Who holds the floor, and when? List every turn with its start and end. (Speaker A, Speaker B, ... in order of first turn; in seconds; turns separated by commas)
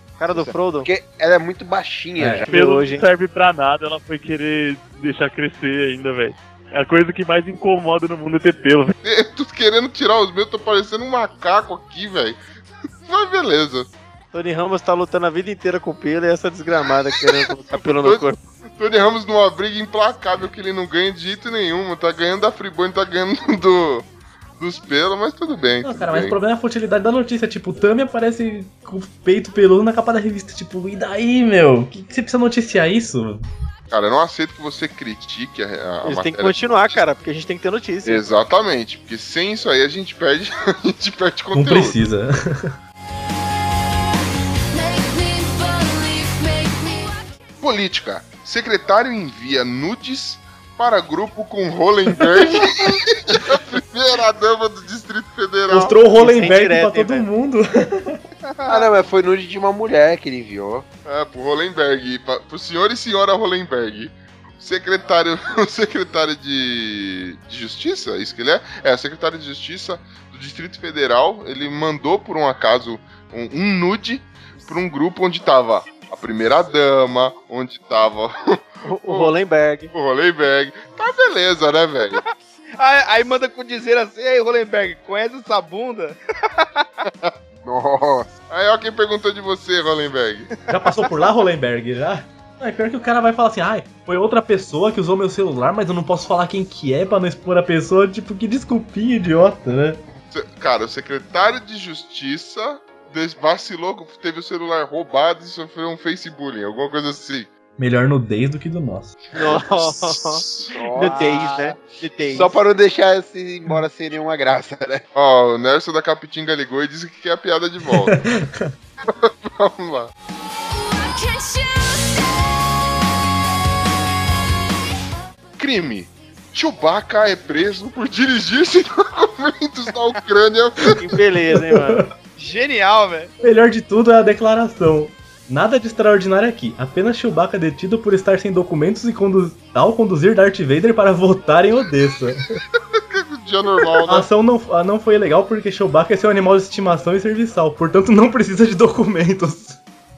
Speaker A: 0.2-0.9, Speaker B: 0.8-2.5, Speaker C: 2.2-2.5, Speaker A: 2.5-3.1, Speaker D: 2.5-8.9, Speaker E: 9.0-12.4, Speaker E: 13.1-13.9, Speaker A: 14.3-18.4, Speaker E: 17.8-18.3, Speaker E: 18.8-26.4, Speaker C: 25.8-33.5, Speaker E: 33.9-37.0, Speaker A: 36.0-38.2, Speaker E: 38.0-42.0, Speaker C: 41.5-42.8, Speaker F: 44.7-47.4, Speaker E: 47.6-56.0, Speaker C: 55.7-58.2, Speaker A: 56.1-57.3, Speaker G: 58.5-58.9, Speaker B: 58.7-60.9, Speaker E: 61.0-79.3, Speaker A: 78.8-79.9, Speaker E: 79.9-82.2, Speaker G: 82.2-86.8, Speaker E: 87.0-87.3, Speaker B: 87.6-88.3, Speaker E: 88.5-90.5, Speaker C: 90.7-100.0, Speaker E: 100.3-107.5, Speaker C: 107.8-109.2, Speaker A: 109.3-110.4, Speaker E: 109.8-110.7, Speaker B: 110.7-115.0, Speaker A: 111.0-112.5, Speaker E: 115.1-118.2, Speaker C: 117.9-118.7, Speaker E: 119.0-120.1, Speaker F: 120.7-123.0, Speaker E: 125.6-131.0, Speaker A: 130.9-132.0, Speaker C: 131.7-132.1, Speaker G: 132.4-133.3, Speaker C: 133.4-142.6, Speaker E: 142.9-144.3, Speaker C: 144.0-149.8